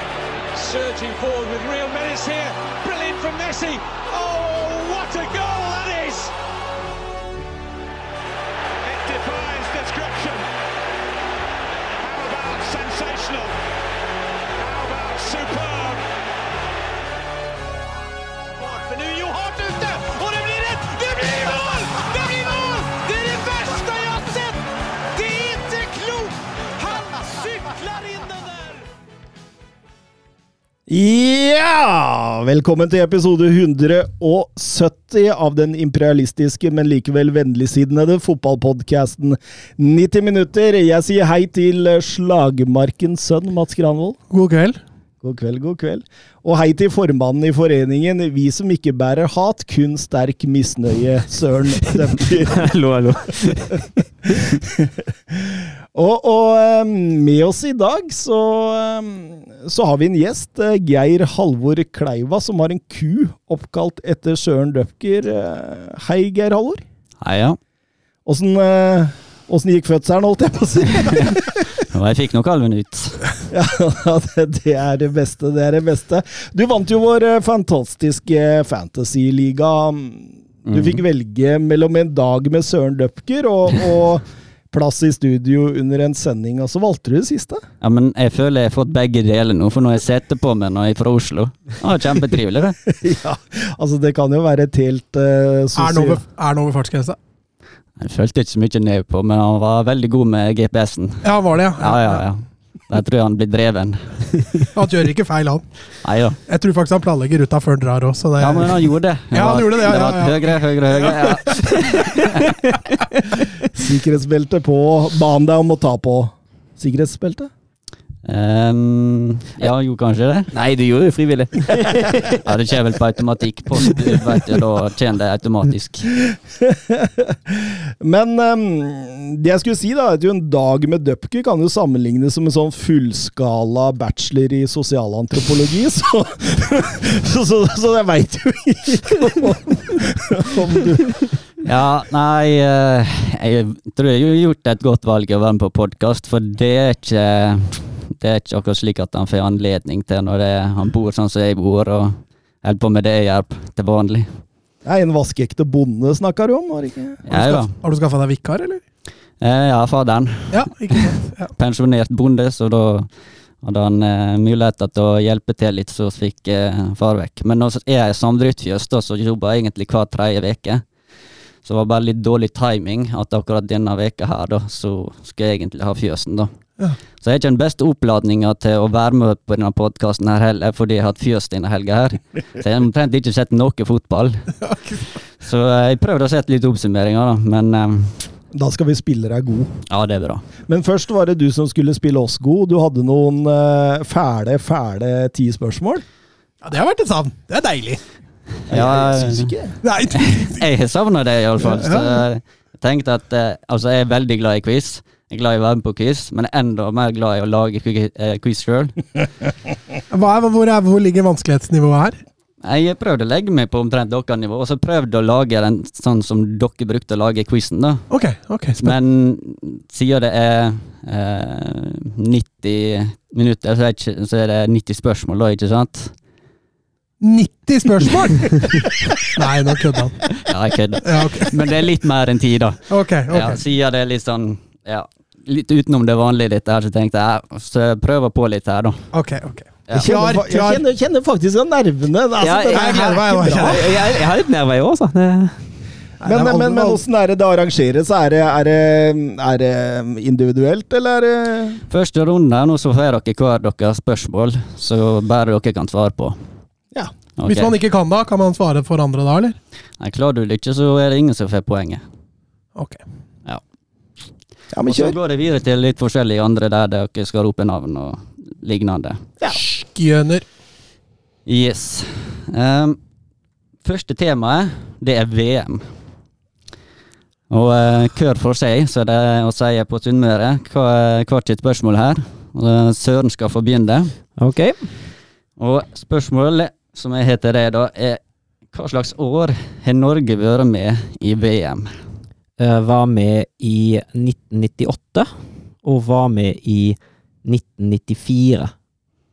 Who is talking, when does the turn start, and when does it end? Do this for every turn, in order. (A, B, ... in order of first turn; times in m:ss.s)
0:00.5-0:06.3 A
0:08.8-0:10.5 A
0:12.0-0:13.6 A
0:14.6-0:16.0 A
0:18.6-0:28.8 A
0:30.9-0:44.2 B
0:44.3-0:44.8 C
0:45.2-0:52.7 B
0:52.5-0:53.9 D
0:54.2-1:06.8 B
1:07.2-1:07.6 E
1:08.2-1:11.6 B
1:11.1-1:13.2 E
1:13.5-1:27.6 B
1:20.6-1:21.0 E
1:27.8-1:32.8 E
1:32.8-1:36.2 B
1:35.7-1:37.2 C
1:38.0-1:44.7 E
1:41.2-1:42.2 C
1:44.7-1:45.6 C
1:46.0-1:46.4 E
1:46.5-1:51.7 C
1:48.4-1:52.6 E
1:53.7-1:57.5 B
1:58.2-2:00.5 E
2:00.5-2:02.4 D
2:02.3-2:06.2 E
2:06.3-2:21.2 B
2:21.6-2:34.3 E
2:34.8-2:37.2 B
2:37.2-2:37.7 E
2:37.3-2:38.8 C
2:39.4-2:43.1 E
2:40.5-2:41.5 C
2:43.6-2:50.8 E
2:51.6-2:56.5 E
2:57.2-3:04.6 E
3:05.4-3:08.2 E
3:08.5-3:09.7 B
3:09.9-3:10.4 E
3:10.6-3:16.0 B
3:16.6-3:18.0 C
3:18.7-3:19.5 E
3:18.7-3:19.8 B
3:19.8-3:20.6 C
3:20.1-3:29.0 E
3:21.6-3:22.2 C
3:30.1-3:32.2 C
3:32.6-3:38.0 E
3:38.1-3:39.0 C
3:38.8-3:46.1 E
3:47.2-3:50.3 C
3:50.4-3:59.0 E
3:51.0-3:51.5 C
3:52.9-3:53.6 C
3:59.1-4:00.8 C
3:59.9-4:04.0 B
4:02.4-4:05.6 D
4:02.7-4:04.0 C
4:06.2-4:07.0 C
4:06.2-4:11.8 B
4:11.9-4:16.4 E
4:17.4-4:17.8 E
4:17.4-4:19.6 C
4:20.0-4:22.0 E
4:22.8-4:23.0 C
4:24.7-4:25.2 B
4:24.8-4:29.2 E
4:29.5-4:30.4 C
4:31.4-4:33.0 E
4:33.8-4:35.8 E
4:37.5-4:44.1 E
4:44.4-4:44.8 D
4:45.6-4:48.2 E
4:48.7-4:51.9 E
4:52.6-4:55.3 D
4:55.8-4:58.7 D